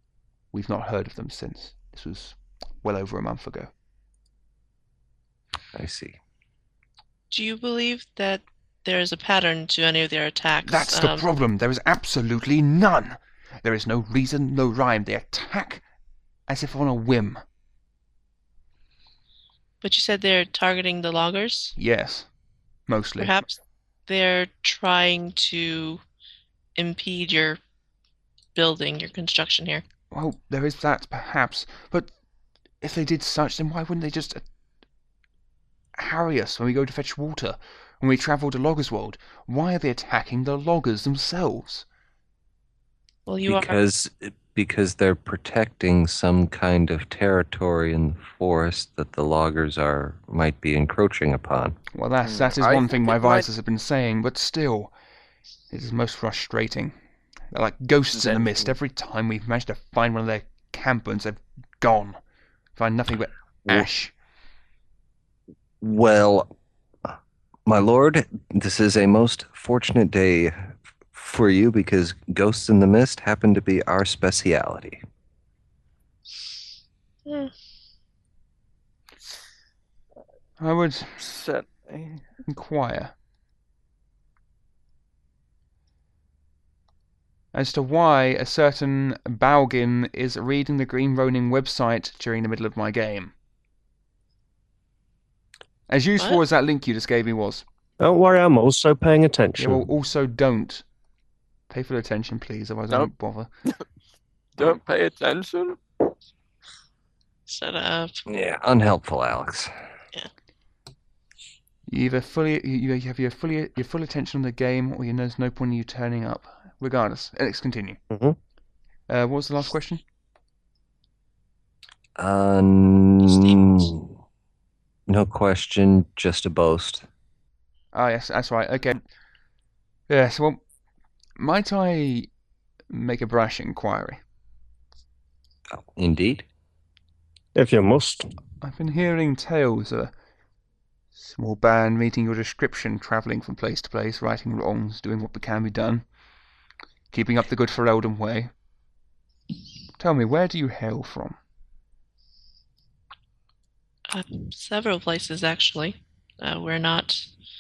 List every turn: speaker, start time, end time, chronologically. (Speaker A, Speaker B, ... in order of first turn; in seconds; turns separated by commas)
Speaker A: 0.5-3.7, Speaker B: 5.8-6.2, Speaker C: 7.3-11.2, Speaker A: 10.7-15.8, Speaker A: 16.5-17.4, Speaker C: 19.8-21.8, Speaker A: 21.8-22.3, Speaker A: 22.9-23.4, Speaker C: 23.2-26.0, Speaker C: 26.8-27.6, Speaker C: 28.6-29.8, Speaker A: 30.1-32.1, Speaker A: 32.8-34.4, Speaker A: 36.0-41.9, Speaker C: 43.3-43.8, Speaker B: 43.5-51.8, Speaker A: 51.9-54.9, Speaker D: 52.2-53.5, Speaker A: 55.7-56.9, Speaker A: 57.5-62.2, Speaker D: 58.1-58.6, Speaker A: 62.8-64.1, Speaker B: 65.8-66.5, Speaker B: 67.7-75.0, Speaker C: 77.3-77.5, Speaker A: 80.6-81.2, Speaker D: 81.2-82.2, Speaker A: 82.5-83.1, Speaker A: 87.5-93.3, Speaker A: 95.9-97.6, Speaker E: 98.0-99.9, Speaker A: 99.6-100.8, Speaker A: 101.7-103.5, Speaker D: 104.6-105.8, Speaker C: 107.5-108.2, Speaker B: 108.3-109.7, Speaker A: 111.9-118.0, Speaker E: 118.1-118.4, Speaker A: 119.1-120.0, Speaker B: 122.2-124.1, Speaker C: 123.3-123.7, Speaker B: 125.1-127.0, Speaker A: 127.9-129.0, Speaker A: 130.1-130.6, Speaker A: 131.4-132.3, Speaker A: 132.9-134.2, Speaker B: 135.7-136.4, Speaker E: 137.6-138.3, Speaker A: 138.6-140.1, Speaker A: 141.2-146.1, Speaker A: 147.1-148.5, Speaker A: 150.0-151.4, Speaker C: 154.1-157.2